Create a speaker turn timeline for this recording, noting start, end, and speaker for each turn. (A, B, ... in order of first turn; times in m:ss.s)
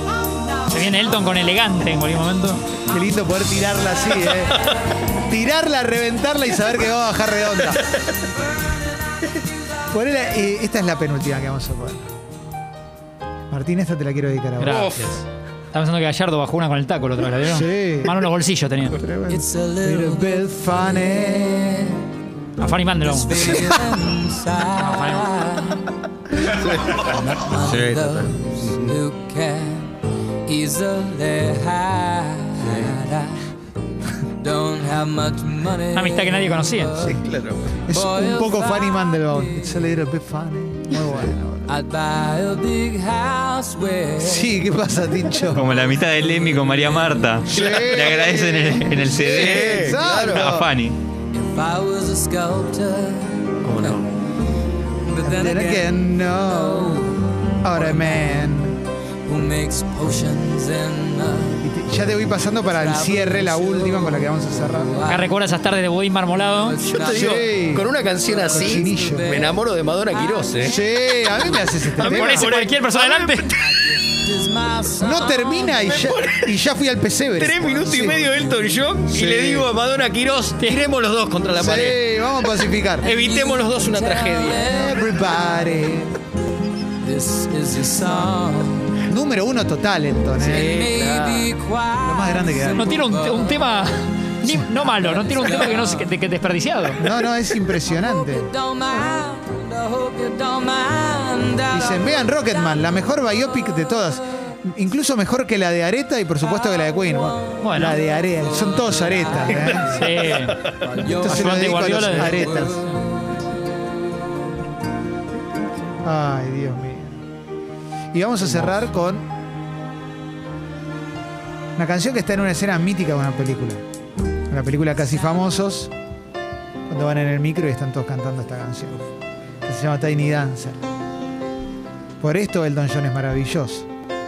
0:00.7-0:02.6 A
0:02.9-0:04.7 B
0:05.2-0:08.0 B
0:09.9-0:12.1 B
0:13.5-0:15.0 B
0:14.6-0:19.0 A
0:14.6-0:15.1 C
0:17.4-0:18.2 B
0:19.0-0:21.9 B
0:19.4-0:20.4 D
0:22.6-0:23.5 A
0:23.2-0:25.5 D
0:23.4-0:24.0 B
0:24.8-0:25.8 A
0:26.4-0:29.0 C
0:27.1-0:29.9 D
0:30.5-0:33.4 D
0:32.6-0:33.0 C
0:34.4-0:37.0 D
0:35.9-0:37.1 A
0:37.0-0:37.2 B
0:37.2-0:37.9 C
0:37.9-0:41.8 B
0:37.9-0:39.3 D
0:41.8-0:44.4 D
0:44.2-0:45.6 B
0:45.5-0:49.7 E
0:47.5-0:50.7 B
0:47.5-0:48.5 C
0:49.2-0:50.5 C
0:50.3-0:51.0 E
0:51.3-0:53.6 D
0:53.6-0:54.1 C
0:55.1-0:56.0 D
0:55.2-0:58.8 B
0:59.3-1:01.6 D
1:01.6-1:05.1 B
1:02.8-1:04.2 D
1:05.1-1:06.9 A
1:06.7-1:07.4 D
1:06.9-1:10.8 C
1:07.1-1:09.4 B
1:08.8-1:09.3 D
1:10.6-1:12.6 B
1:11.4-1:13.8 C
1:12.0-1:13.5 A
1:14.1-1:15.7 D
1:15.0-1:18.4 B
1:15.9-1:16.6 C
1:17.4-1:22.0 C
1:19.1-1:19.7 B
1:21.6-1:23.1 B
1:23.0-1:24.6 C
1:23.1-1:25.0 D
1:24.6-1:26.1 B
1:27.0-1:28.8 D
1:29.0-1:30.8 B
1:30.4-1:31.5 C
1:30.5-1:33.7 D
1:32.0-1:32.9 B
1:32.7-1:37.1 A
1:37.0-1:38.5 B
1:38.0-1:42.0 D
1:41.7-1:50.1 B
1:47.6-1:48.0 A
1:49.5-1:52.9 A
1:50.7-1:51.0 C
1:51.0-1:51.5 D
1:51.0-1:52.8 B
1:56.0-1:57.2 B
1:58.1-1:59.3 B
2:01.8-2:03.8 B
2:04.5-2:05.9 B
2:06.9-2:09.0 B
2:09.6-2:10.8 B
2:12.2-2:13.9 B